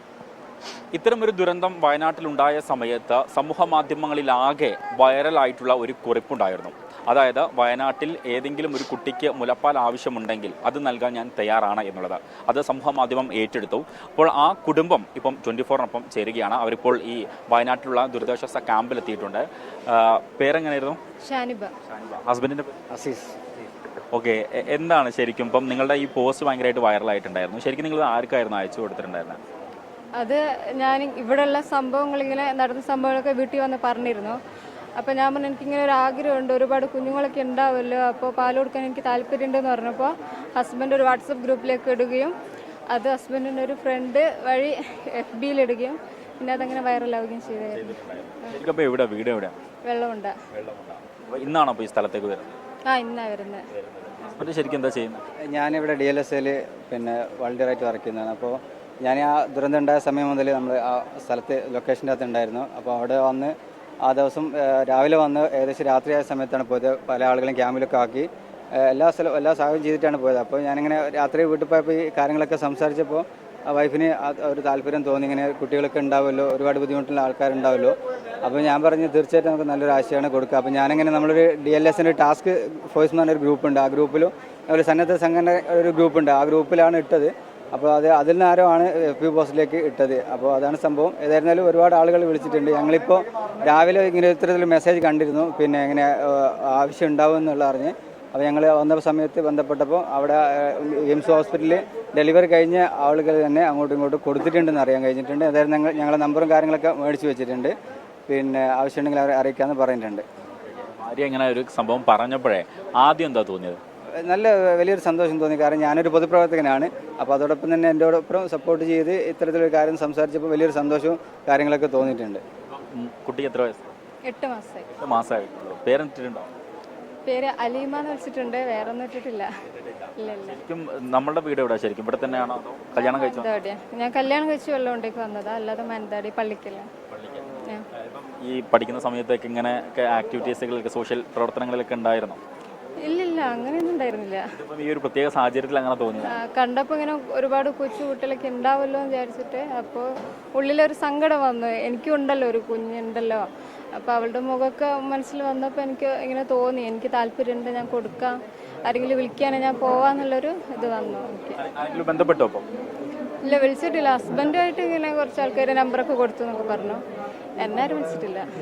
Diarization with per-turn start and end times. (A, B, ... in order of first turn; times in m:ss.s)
0:00.9-0:21.0 A
0:21.2-0:21.7 B
0:21.9-0:22.7 A
0:22.9-0:23.4 C
0:24.1-0:29.4 A
0:30.2-0:34.4 B
0:35.0-0:42.4 B
0:42.9-0:48.0 B
0:47.9-0:49.5 A
0:49.8-0:50.4 B
0:50.6-0:52.6 A
0:52.9-0:53.7 B
0:54.2-0:55.2 A
0:55.5-1:03.6 C
1:04.1-1:47.7 C
1:48.3-1:50.3 C
1:51.0-1:53.8 A
1:54.2-2:02.4 C
2:02.9-2:03.9 A
2:04.3-2:04.9 B
2:05.0-2:06.5 A
2:07.3-2:09.5 B
2:10.2-2:10.6 B
2:10.5-2:13.5 A
2:13.0-2:16.9 B
2:17.1-2:17.4 A
2:18.4-2:22.4 A
2:23.0-2:24.5 B
2:24.6-2:26.4 A
2:26.2-2:41.6 B
2:41.6-2:42.7 A
2:43.4-2:47.0 B
2:47.6-2:48.5 B